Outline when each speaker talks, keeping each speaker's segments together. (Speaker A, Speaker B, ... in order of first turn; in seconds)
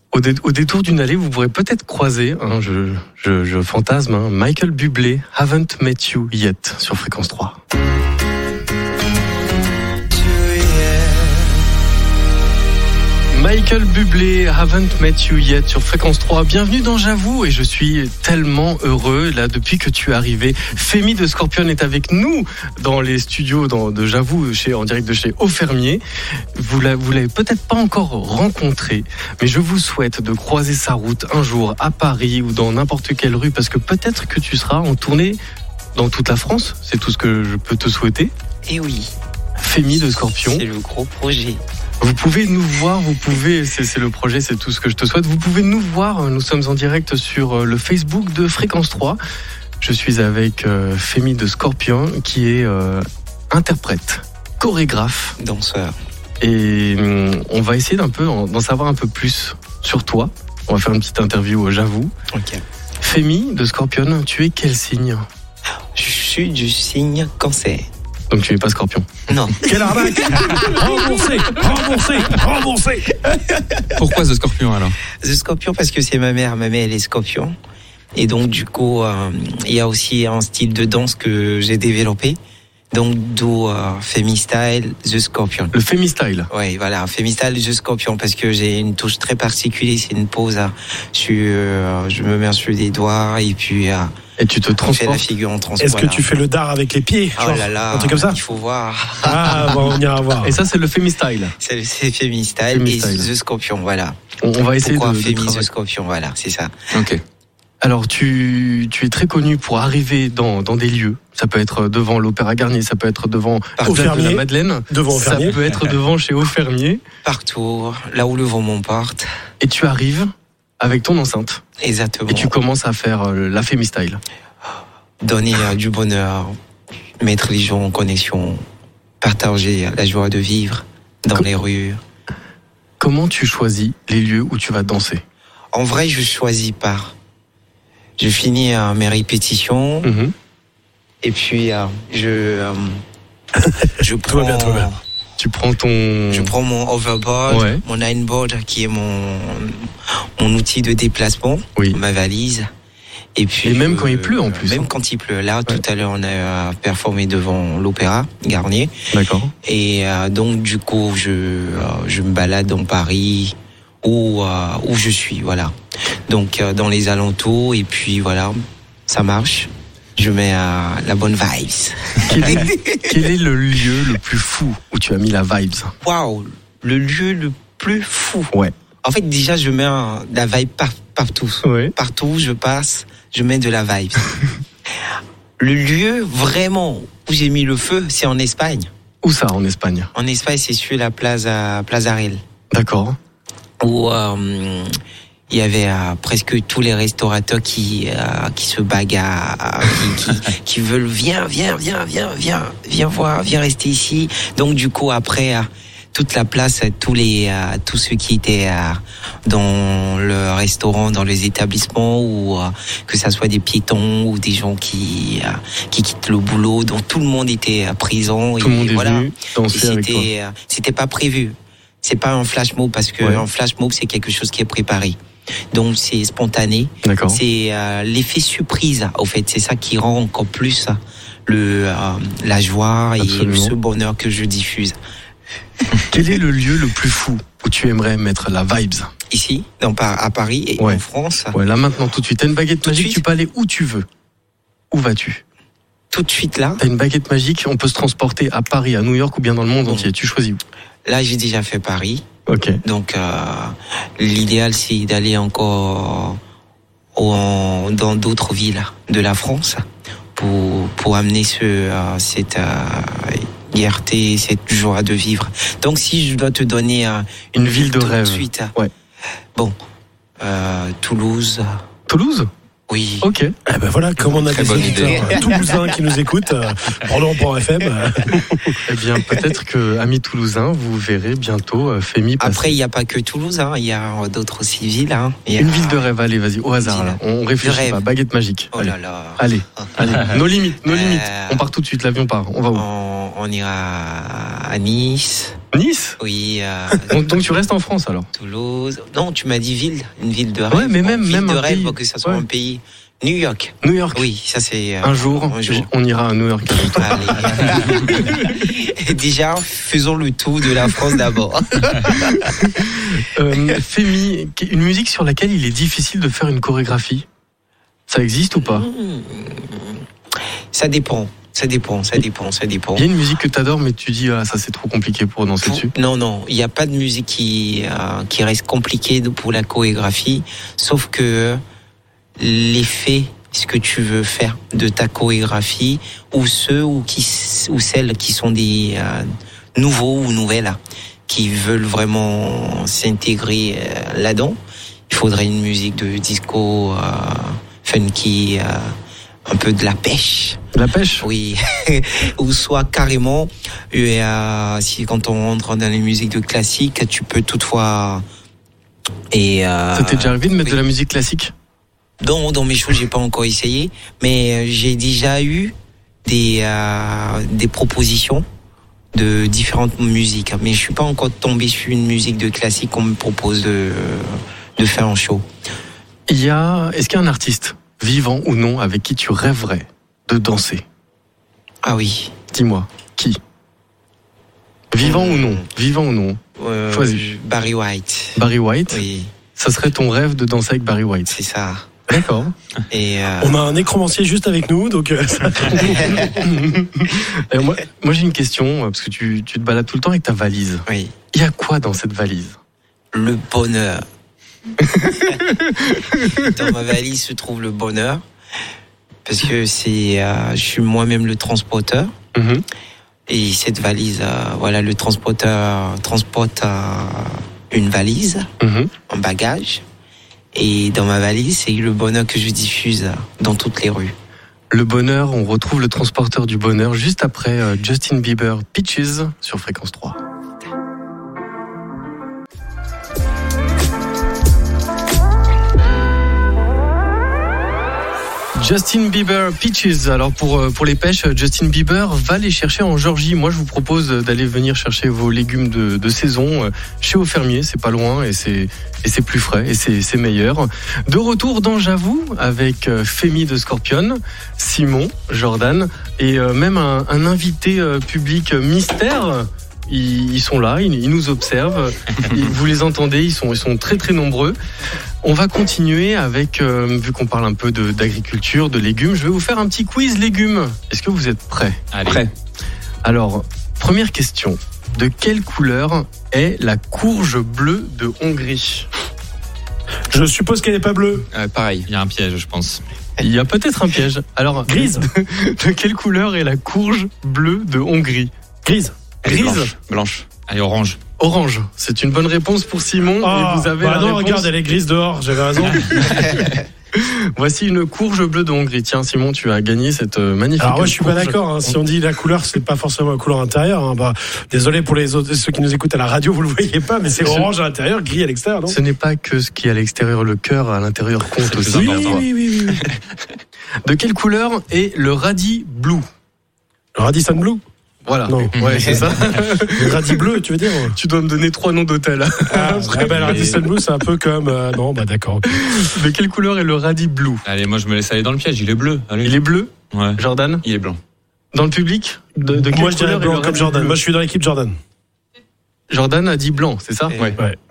Speaker A: 0.1-7.6, 13.3-26.0, 26.6-35.4, 36.0-38.3, 39.6-40.6, 42.0-49.2, 49.8-55.4, 56.4-62.1, 63.0-65.3, 68.3-69.1, 85.7-86.5, 94.4-95.2, 100.4-101.5, 102.7-103.3, 104.4-105.7, 107.8-117.0, 119.6-121.6, 122.3-124.2, 133.0-135.2, 140.0-140.3, 145.4-146.5, 147.5-147.8, 153.7-154.9, 159.1-159.5, 172.3-175.9, 181.6-181.9, 189.2-190.1, 192.7-193.2, 218.6-220.3, 227.0-227.4, 233.2-233.7, 236.1-239.1, 241.5-244.1, 244.9-245.4, 246.8-250.6, 252.5-252.8, 267.6-268.9, 272.1-272.5, 273.2-273.5, 278.9-282.8, 285.6-292.9, 295.7-296.2, 297.1-298.3, 300.7-302.4, 303.8-304.2, 305.0-308.6, 312.3-317.3, 318.1-318.9, 323.0-325.9, 350.7-351.2, 359.9-361.5, 376.3-380.8, 382.5-383.4, 384.9-386.4, 386.9-387.2, 388.4-389.0, 389.6-391.4, 392.1-392.5, 395.7-402.6, 404.8-406.5, 412.4-412.6, 418.6-418.9, 424.7-430.2, 438.6-464.6, 465.2-471.8, 473.0-478.9, 483.2-488.3, 489.2-489.7, 491.2-494.5, 496.9-501.8, 508.7-512.2, 513.9-516.1, 518.1-520.3, 520.9-523.6, 525.6-527.4, 529.2-530.6, 531.5-534.0, 535.9-537.2
Speaker B: 10.1-11.6, 38.7-39.1, 40.4-41.6, 55.4-56.0, 62.3-62.6, 66.0-67.9, 69.3-70.7, 73.3-73.8, 75.2-77.5, 78.1-82.4, 82.9-85.7, 86.5-94.1, 94.8-96.2, 97.4-99.9, 101.6-104.2, 104.8-106.7, 113.8-114.1, 117.2-119.3, 121.8-122.5, 125.2-126.5, 127.2-128.6, 129.2-132.0, 135.7-137.1, 138.2-140.1, 141.2-143.0, 144.0-145.0, 146.3-149.9, 150.4-152.7, 153.3-158.9, 159.6-165.7, 166.3-173.1, 176.0-178.5, 179.0-184.3, 185.6-188.9, 190.2-192.4, 193.8-194.9, 195.5-225.2, 225.7-235.0, 239.3-241.6, 242.8-243.2, 246.1-246.8, 249.8-250.1, 251.1-252.2, 252.8-256.4, 257.1-259.9, 260.4-268.7, 270.4-271.8, 272.9-273.3, 274.7-275.9, 282.4-286.1, 286.8-288.0, 288.7-291.6, 292.7-295.6, 296.2-297.4, 298.4-305.9, 306.9-312.6, 318.6-320.0, 320.7-323.1, 325.6-331.6, 332.4-344.6, 345.1-348.9, 349.5-350.6, 351.2-358.2, 359.3-360.8, 362.2-365.7, 366.2-368.4, 369.1-375.4, 381.8-382.4, 385.0-385.6, 386.6-389.3, 391.3-391.9, 392.9-393.6, 396.0-396.3, 400.9-401.1, 403.1-404.0, 406.4-408.2, 409.2-412.1, 413.3-418.5, 419.1-419.8, 420.5-424.1, 537.1-537.4
Speaker C: 69.6-73.1, 95.8-98.4, 99.2-100.5, 113.8-115.6, 143.6-144.9, 273.7-278.8, 393.4-396.3, 480.1-481.3, 484.7-485.1, 488.6-489.0, 493.2-496.3, 500.6-508.8, 511.6-512.9, 517.0-517.6, 518.3-521.0, 522.5-525.9, 532.5-534.8
Speaker D: 74.0-75.0, 106.9-107.2, 274.4-275.3, 472.0-472.3, 481.3-481.9, 489.2-490.3, 530.6-531.0
Speaker E: 471.9-472.2, 481.9-482.8, 490.5-491.0, 511.4-512.2, 518.5-518.9, 527.5-530.2